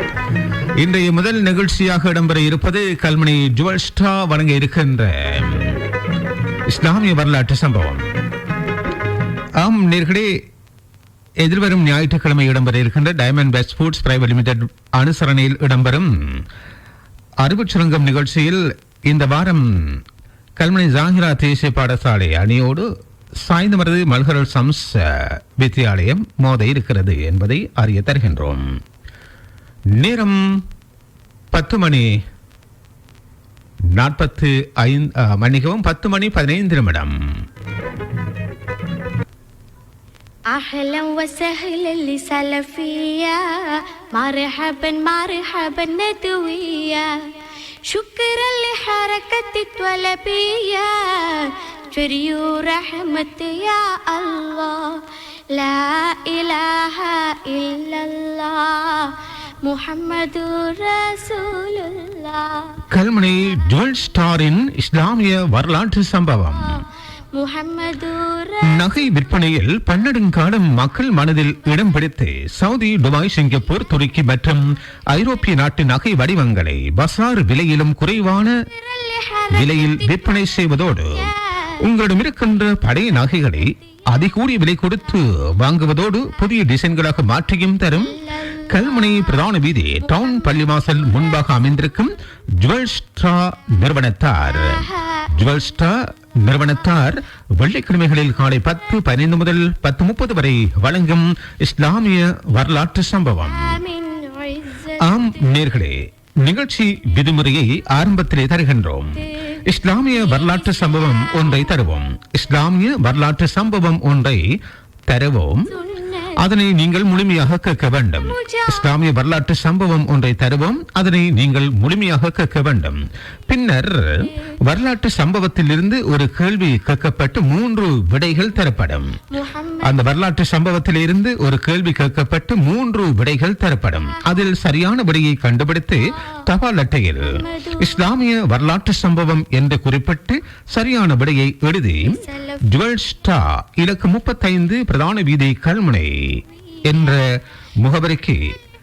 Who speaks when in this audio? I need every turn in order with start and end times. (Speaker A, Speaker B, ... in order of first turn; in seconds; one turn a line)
Speaker A: 0.8-5.8
Speaker A: 6.7-8.1
Speaker A: 9.6-10.3
Speaker A: 11.4-16.4
Speaker A: 17.4-20.0
Speaker A: 20.6-22.9
Speaker A: 23.4-28.7
Speaker A: 30.0-30.4
Speaker A: 31.5-32.1
Speaker A: 34.0-37.1
Speaker B: 40.5-47.3
Speaker B: 47.9-62.8
Speaker A: 62.9-66.8
Speaker B: 67.3-68.7
Speaker A: 68.7-78.5
Speaker B: 78.8-79.5
Speaker A: 79.5-103.8
Speaker B: 94.8-95.2
Speaker B: 103.5-105.3
Speaker A: 105.0-114.4
Speaker B: 110.2-111.6
Speaker A: 115.1-115.8
Speaker B: 115.7-116.4
Speaker A: 116.3-129.2
Speaker B: 118.3-118.8
Speaker B: 129.3-129.9
Speaker A: 129.8-146.2
Speaker B: 137.3-138.0
Speaker B: 142.2-142.6
Speaker A: 146.9-147.2
Speaker A: 147.8-148.4